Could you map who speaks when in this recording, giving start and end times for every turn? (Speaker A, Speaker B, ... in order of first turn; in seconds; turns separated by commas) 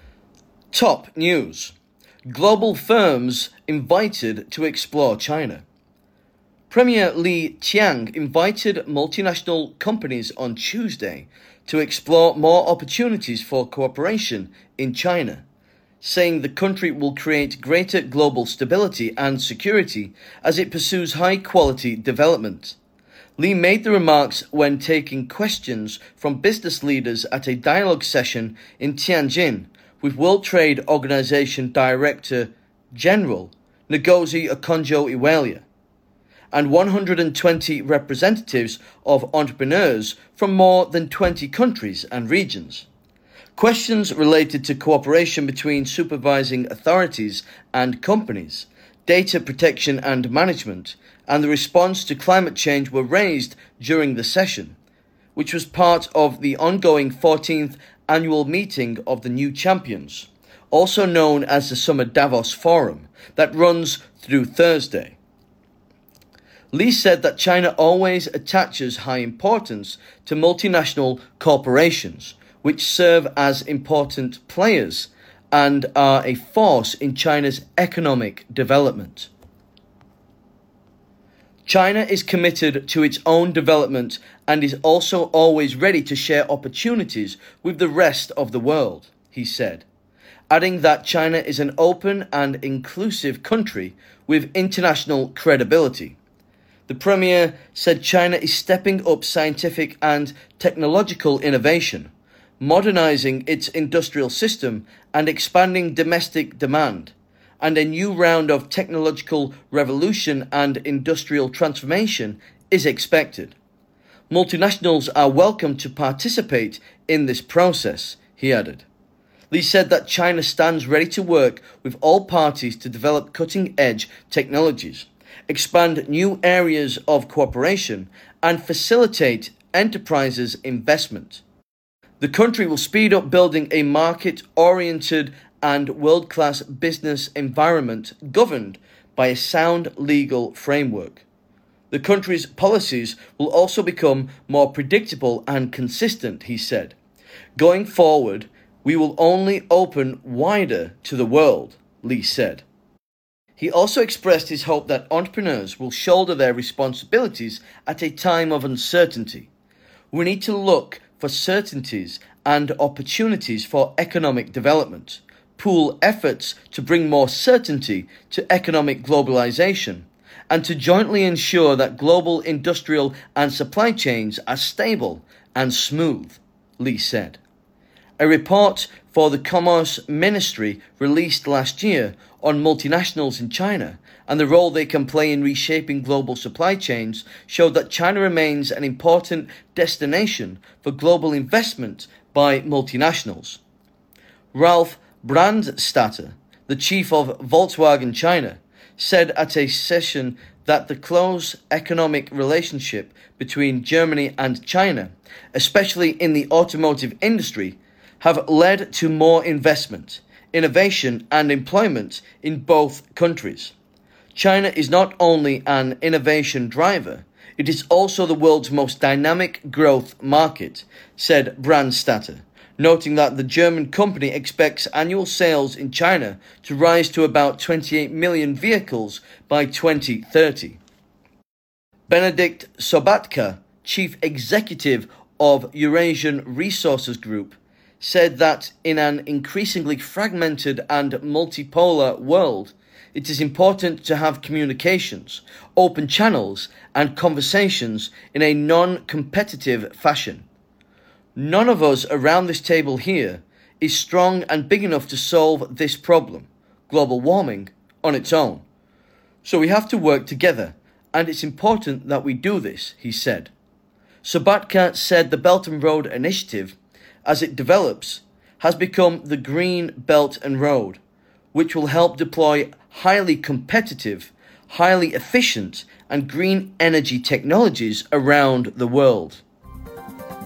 Speaker A: 0.7-1.7, Speaker A: 2.2-5.6, Speaker A: 6.7-15.4, Speaker A: 16.0-22.8, Speaker A: 23.4-35.6, Speaker A: 36.5-42.9, Speaker A: 43.5-54.8, Speaker A: 55.3-65.2, Speaker A: 66.7-79.3, Speaker A: 81.7-89.8, Speaker A: 90.5-96.2, Speaker A: 96.9-113.5, Speaker A: 114.3-118.8, Speaker A: 119.5-131.4, Speaker A: 132.2-141.2, Speaker A: 141.9-146.9, Speaker A: 147.6-152.6, Speaker A: 153.6-159.5, Speaker A: 160.1-177.4, Speaker A: 178.2-193.6, Speaker A: 194.5-213.7, Speaker A: 214.3-230.8, Speaker A: 232.1-250.4, Speaker A: 251.3-258.6, Speaker A: 259.4-263.5, Speaker A: 264.2-271.0, Speaker A: 271.5-279.4